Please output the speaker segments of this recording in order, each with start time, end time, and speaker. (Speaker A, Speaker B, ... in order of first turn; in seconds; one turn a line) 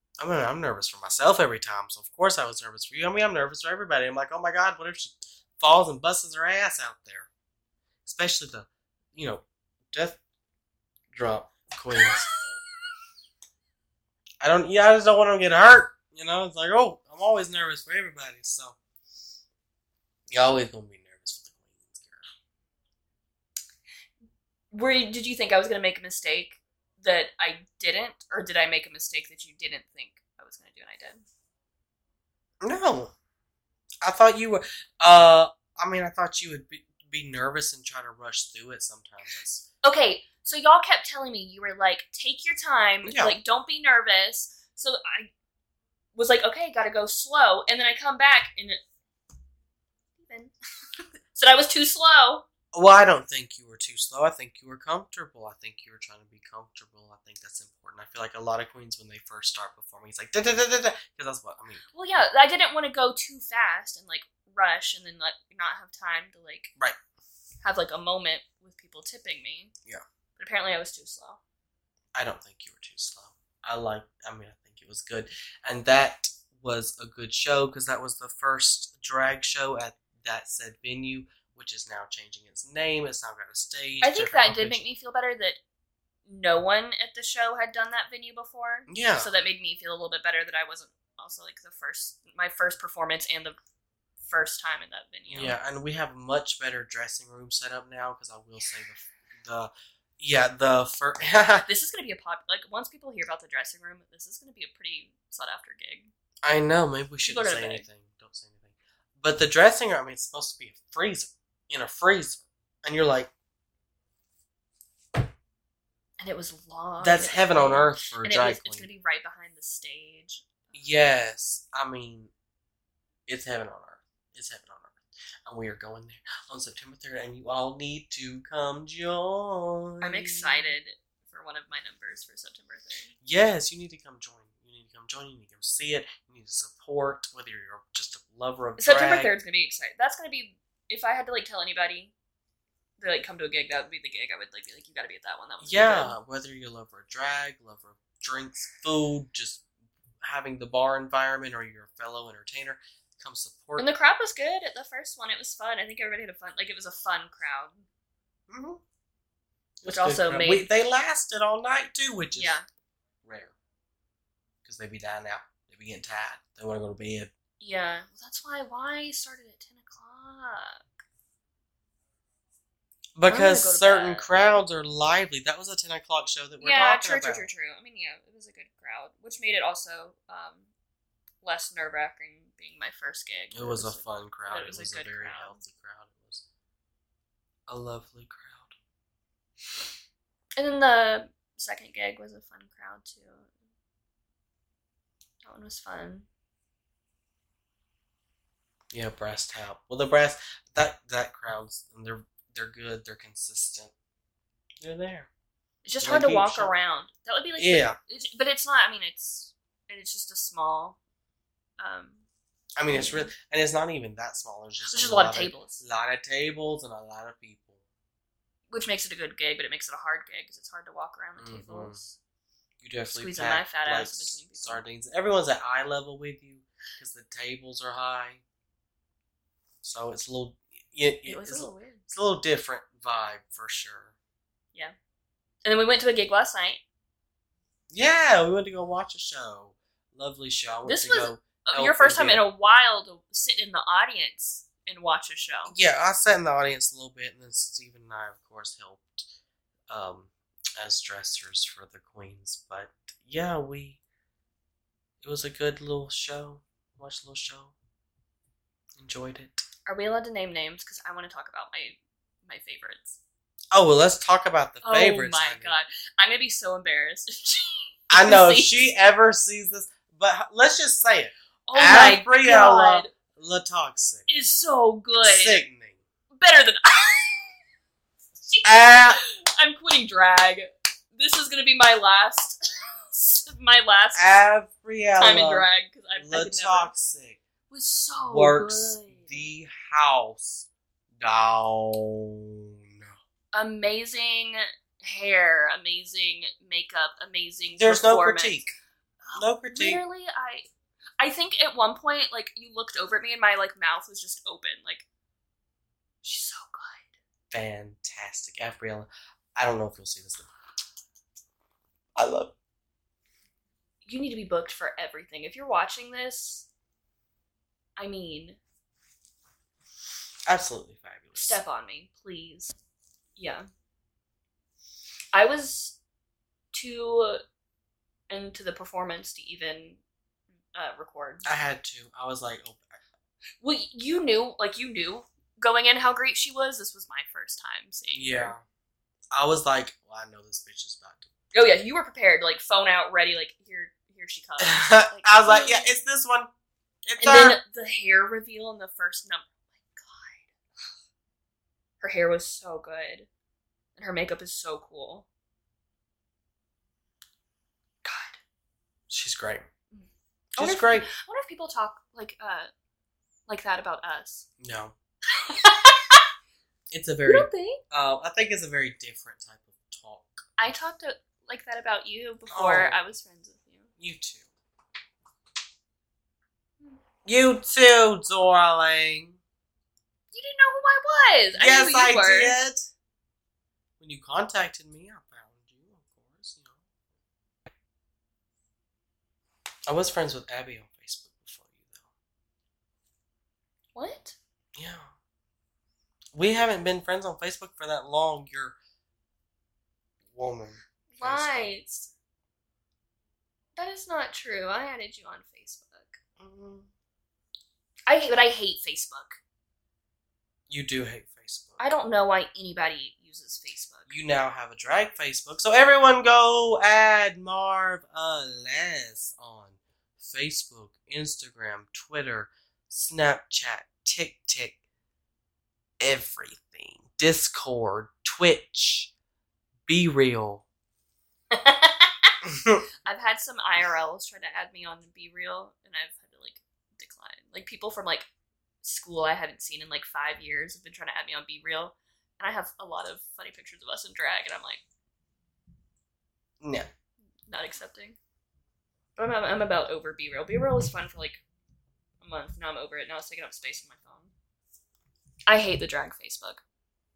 Speaker A: 0.2-7.3
Speaker A: 8.0-10.2
Speaker A: 11.1-12.3
Speaker A: 14.4-18.8
Speaker A: 20.3-22.2
Speaker B: 24.7-31.2
Speaker A: 32.6-33.1
Speaker A: 34.0-39.6
Speaker B: 39.8-45.3
Speaker A: 43.0-43.4
Speaker B: 46.1-48.8
Speaker B: 50.2-50.5
Speaker B: 51.3-52.4
Speaker A: 52.7-61.8
Speaker B: 61.9-66.7
Speaker B: 67.6-69.7
Speaker B: 70.4-71.4
Speaker A: 72.1-84.8
Speaker B: 84.0-85.6
Speaker B: 86.3-93.6
Speaker A: 88.9-89.3
Speaker B: 94.2-95.6
Speaker A: 95.3-101.7
Speaker B: 101.6-106.1
Speaker A: 106.4-113.3
Speaker B: 107.2-107.8
Speaker B: 116.2-120.7
Speaker A: 117.0-118.9
Speaker A: 120.7-122.3
Speaker A: 123.3-130.7
Speaker B: 130.0-133.1
Speaker A: 133.2-139.3
Speaker B: 138.8-142.1
Speaker B: 143.0-146.2
Speaker A: 145.6-149.6
Speaker A: 150.2-153.9
Speaker B: 153.8-157.8
Speaker A: 158.5-158.8
Speaker A: 159.8-162.6
Speaker B: 159.9-160.7
Speaker B: 162.3-162.6
Speaker A: 163.2-163.5
Speaker A: 164.6-167.3
Speaker B: 167.6-170.8
Speaker A: 173.2-177.5
Speaker B: 173.3-174.6
Speaker B: 176.6-180.7
Speaker B: 181.4-185.6
Speaker A: 183.5-186.4
Speaker A: 187.7-188.7
Speaker B: 190.6-193.5
Speaker B: 195.4-196.3
Speaker A: 198.9-203.9
Speaker A: 204.8-205.3
Speaker B: 205.8-211.0
Speaker A: 206.0-206.7
Speaker A: 207.6-208.0
Speaker B: 211.8-212.2
Speaker A: 212.8-217.8
Speaker B: 212.9-213.3
Speaker B: 214.8-215.8
Speaker B: 218.7-222.2
Speaker A: 221.4-222.0
Speaker A: 222.8-228.4
Speaker B: 223.1-224.8
Speaker A: 229.8-234.1
Speaker B: 231.2-232.0
Speaker B: 235.6-236.8
Speaker A: 237.9-242.4
Speaker B: 240.8-245.7
Speaker A: 245.7-249.3
Speaker A: 249.9-254.0
Speaker A: 255.2-257.7
Speaker A: 259.0-259.6
Speaker B: 259.9-263.2
Speaker A: 263.7-265.8
Speaker B: 264.8-268.8
Speaker A: 268.1-274.3
Speaker B: 271.7-273.1
Speaker B: 274.3-275.6
Speaker A: 275.2-276.0
Speaker B: 276.3-277.5
Speaker B: 278.4-284.4
Speaker A: 278.6-279.2
Speaker A: 284.1-287.4
Speaker B: 285.2-286.9
Speaker B: 287.7-289.5
Speaker A: 288.3-290.6
Speaker A: 291.2-292.4
Speaker B: 293.5-300.7
Speaker A: 297.8-298.7
Speaker A: 299.3-300.0
Speaker B: 301.2-305.1
Speaker B: 306.2-307.1
Speaker A: 307.5-310.5
Speaker A: 312.1-312.5
Speaker B: 314.0-316.7
Speaker B: 318.0-318.6
Speaker A: 320.5-321.6
Speaker B: 321.4-322.7
Speaker B: 323.4-323.7
Speaker B: 325.3-326.0
Speaker B: 326.7-327.4
Speaker B: 328.3-330.0
Speaker B: 330.7-331.4
Speaker A: 331.4-333.0
Speaker B: 333.6-338.5
Speaker A: 338.1-338.6
Speaker A: 339.3-341.3
Speaker B: 341.5-345.9
Speaker A: 344.6-346.5
Speaker A: 347.1-347.6
Speaker B: 347.2-350.9
Speaker B: 352.0-353.3
Speaker B: 353.9-355.2
Speaker B: 358.0-358.4
Speaker A: 359.1-359.7
Speaker B: 359.9-362.7
Speaker A: 360.6-361.1
Speaker B: 363.5-364.4
Speaker A: 364.6-364.9
Speaker B: 365.3-366.2
Speaker A: 366.9-370.4
Speaker B: 367.2-367.8
Speaker B: 370.6-373.9
Speaker A: 372.5-373.0
Speaker A: 374.0-374.5
Speaker A: 377.2-379.4
Speaker B: 380.3-382.6
Speaker A: 381.5-382.9
Speaker A: 384.0-386.8
Speaker A: 389.9-392.0
Speaker B: 393.9-394.4
Speaker A: 394.8-395.1
Speaker A: 396.3-398.8
Speaker A: 400.3-401.8
Speaker B: 401.1-402.1
Speaker B: 403.8-406.2
Speaker A: 406.4-406.9
Speaker B: 408.1-409.4
Speaker A: 410.7-411.8
Speaker B: 411.8-414.1
Speaker A: 414.1-424.8
Speaker A: 426.0-429.1
Speaker A: 429.9-430.6
Speaker B: 431.5-432.3
Speaker A: 432.4-432.8
Speaker B: 433.0-438.3
Speaker B: 438.8-444.8
Speaker A: 446.6-446.9
Speaker B: 447.4-448.2
Speaker B: 449.2-451.4
Speaker B: 452.2-454.3
Speaker B: 455.5-456.6